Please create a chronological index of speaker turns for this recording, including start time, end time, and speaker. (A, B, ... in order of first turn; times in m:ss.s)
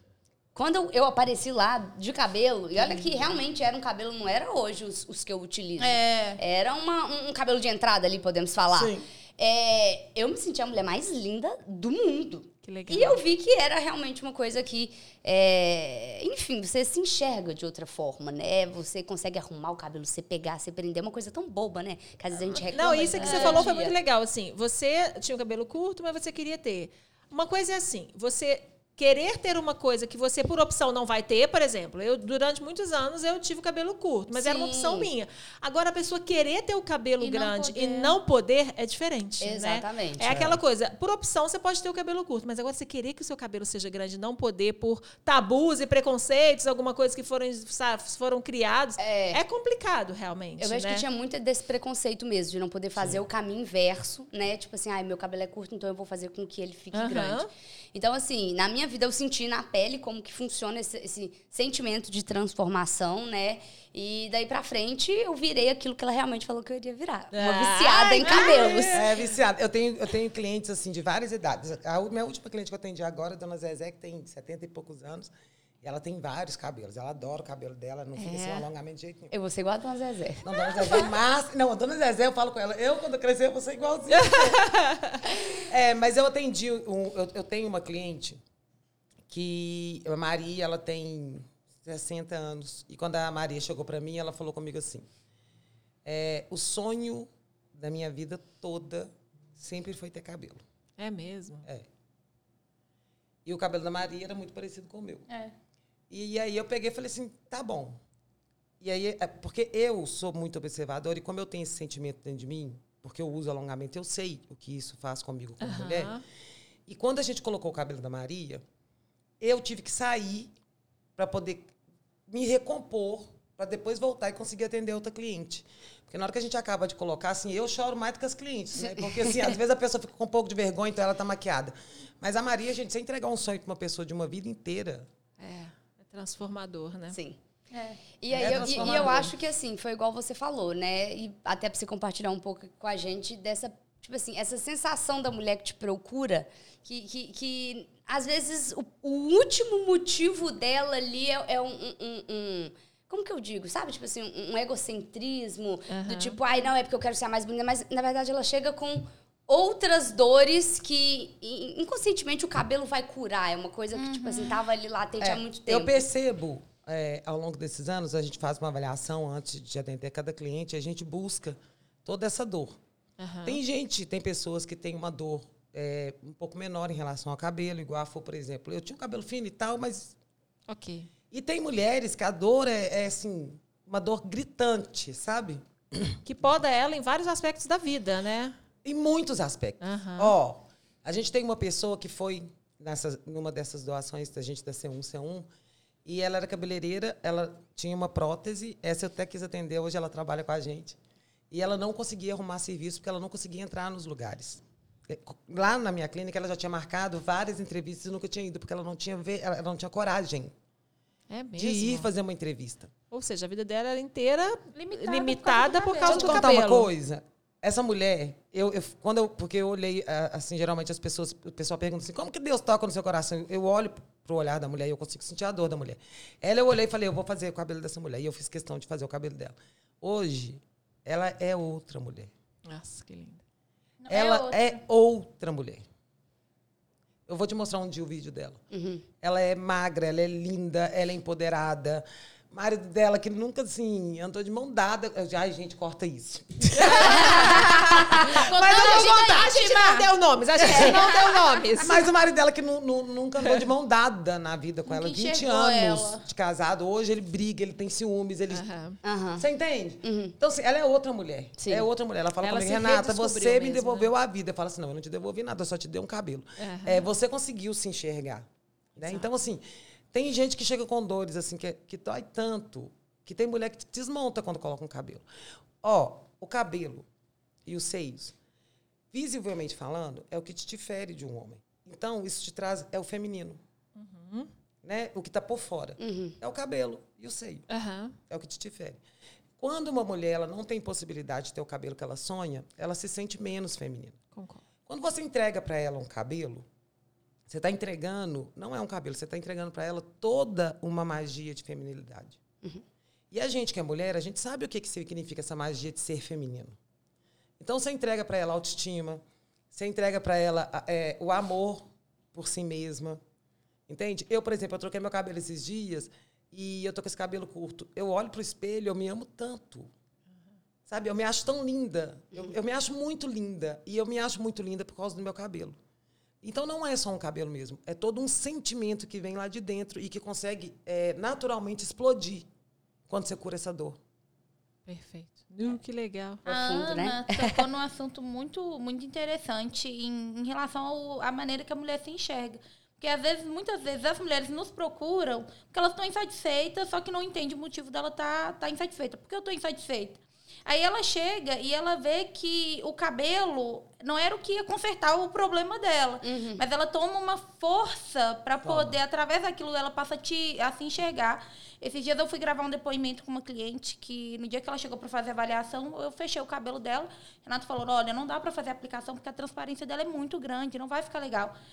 0:00.5-0:23.9 A
0:05.8-0:06.4 B
0:08.7-0:09.0 C
0:12.6-0:13.2 D
0:22.5-0:51.0 D
0:23.2-0:23.9 B
0:34.3-0:35.1 A
0:37.2-0:38.1 B
0:39.4-0:40.3 A
0:40.3-0:40.6 C
0:49.0-0:49.4 A
0:50.6-1:09.0 A
0:56.9-0:57.5 D
1:07.3-1:09.1 D
1:08.9-1:15.3 C
1:15.8-1:19.3 C
1:18.2-1:18.6 D
1:19.3-1:21.0 A
1:20.4-1:24.6 C
1:24.1-1:25.2 D
1:25.5-1:28.4 C
1:29.3-1:35.0 C
1:36.0-1:40.6 C
1:41.0-1:41.6 D
1:43.4-1:45.3 C
1:46.1-1:48.0 C
1:48.8-1:56.1 C
1:55.6-1:56.2 D
1:56.9-1:58.6 C
1:59.4-2:00.5 C
2:01.2-2:01.7 C
2:02.3-2:15.1 C
2:15.4-2:17.2 D
2:17.1-2:17.4 A
2:17.7-2:18.0 B
2:18.2-2:46.0 A
2:18.3-2:19.3 C
2:18.8-2:19.1 D
2:35.9-2:36.4 D
2:43.9-2:44.6 B
2:45.2-2:52.8 C
2:53.2-2:53.6 D
2:53.4-3:00.2 C
3:00.7-3:01.1 D
3:01.3-3:06.2 C
3:06.2-3:08.6 D
3:08.8-3:15.5 C
3:09.8-3:10.3 D
3:16.0-3:21.0 C
3:21.5-3:30.5 C
3:31.3-3:32.1 D
3:31.6-3:32.9 C
3:33.1-3:36.9 D
3:34.7-3:36.5 B
3:36.0-3:52.3 C
3:52.6-3:53.4 D
3:54.0-3:54.8 B
3:54.1-3:55.8 C
3:57.3-3:58.6 C
3:58.7-3:59.0 A
3:59.2-4:09.6 C
4:06.8-4:12.1 D
4:07.1-4:10.1 B
4:10.6-4:11.0 C
4:10.6-4:11.6 B
4:11.8-4:18.6 C
4:14.9-4:16.2 B
4:18.5-4:19.0 D
4:19.0-4:19.4 A
4:19.4-4:35.2 C
4:20.0-4:20.3 A
4:21.6-4:21.8 A
4:22.4-4:24.1 D
4:26.6-4:27.0 D
4:29.0-4:29.2 D
4:35.8-4:37.0 C
4:37.6-4:38.3 C
4:39.1-4:43.6 C
4:44.0-4:44.5 D
4:44.8-4:47.6 C
4:46.0-4:46.4 A
4:47.7-4:48.2 D
4:48.3-4:49.0 C
4:49.6-4:54.2 C
4:54.3-4:54.6 D
4:54.9-4:56.6 C
4:57.5-5:02.4 C
5:03.3-5:06.8 C
5:07.6-5:13.2 C
5:13.9-5:19.9 C
5:20.9-5:25.8 C
5:26.4-5:32.5 C
5:33.1-5:34.0 C
5:34.8-5:36.4 D
5:36.4-5:37.6 A
5:36.4-6:11.5 B
5:56.2-5:56.6 A
5:58.6-5:59.0 C